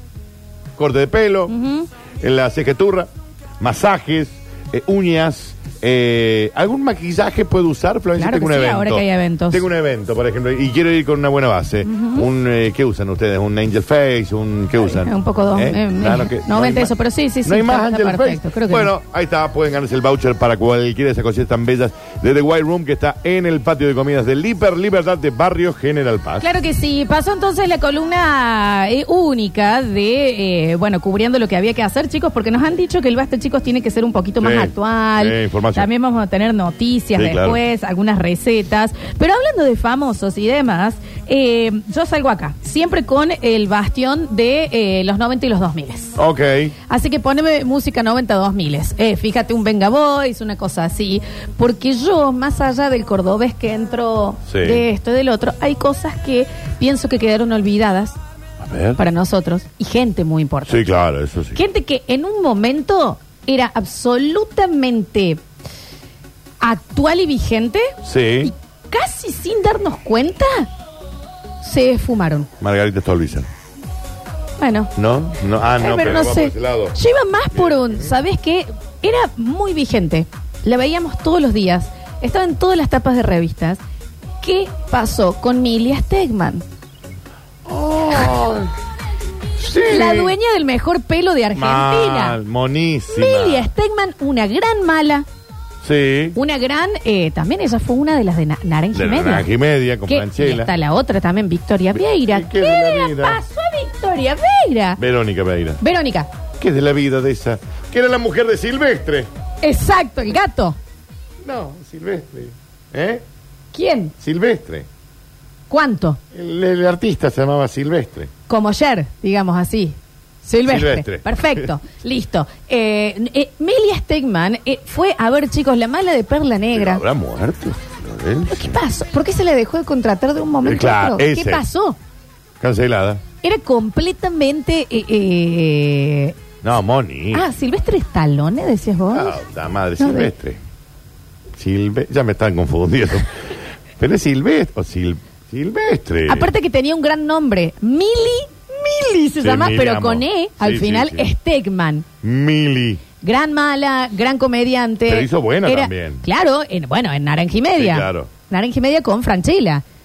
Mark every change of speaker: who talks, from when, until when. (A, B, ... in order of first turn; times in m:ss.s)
0:00.8-0:01.5 A
0:01.5-0:01.9 B
0:02.2-0:16.9 A
0:08.2-0:09.6 B
0:11.8-0:12.3 B
0:14.8-0:18.9 B
0:17.4-0:26.5 A
0:26.4-0:46.2 B
0:34.4-0:35.9 A
0:37.2-0:37.6 A
0:46.2-0:46.8 A
0:46.9-0:58.2 B
0:54.5-0:54.8 A
0:58.6-0:59.0 A
0:59.0-1:00.9 B
1:00.7-1:01.6 A
1:01.5-1:05.4 B
1:06.6-1:10.7 B
1:08.0-1:08.5 A
1:11.6-1:12.5 B
1:12.6-1:13.5 A
1:14.6-1:14.9 B
1:15.0-1:17.0 A
1:15.8-1:23.8 B
1:17.5-1:18.1 A
1:24.4-1:26.6 B
1:27.7-1:28.7 A
1:29.6-1:30.4 A
1:29.9-1:32.4 B
1:31.6-1:33.7 A
1:33.1-1:35.3 B
1:35.8-1:36.4 A
1:36.4-1:39.5 B
1:38.9-1:40.7 A
1:40.1-1:45.0 B
1:42.0-1:43.4 A
1:45.0-1:45.8 A
1:45.8-1:46.3 B
1:46.6-1:49.3 A
1:49.6-1:50.8 B
1:51.4-1:53.2 A
1:53.7-1:54.1 B
1:54.2-1:54.9 A
1:55.7-1:56.2 B
1:56.3-1:58.3 A
1:58.5-2:07.0 B
2:00.6-2:01.7 A
2:06.7-2:08.8 A
2:08.5-2:12.0 B
2:10.6-2:11.6 A
2:12.6-2:13.2 A
2:13.4-2:16.4 B
2:16.6-2:17.4 A
2:17.3-2:19.4 B
2:19.1-2:20.6 A
2:20.0-2:20.3 B
2:21.6-2:23.3 A
2:24.0-2:26.5 A
2:26.3-2:32.0 B
2:29.4-2:31.3 A
2:32.2-2:33.0 A
2:33.2-2:39.8 B
2:35.1-2:36.2 A
2:37.8-2:38.3 A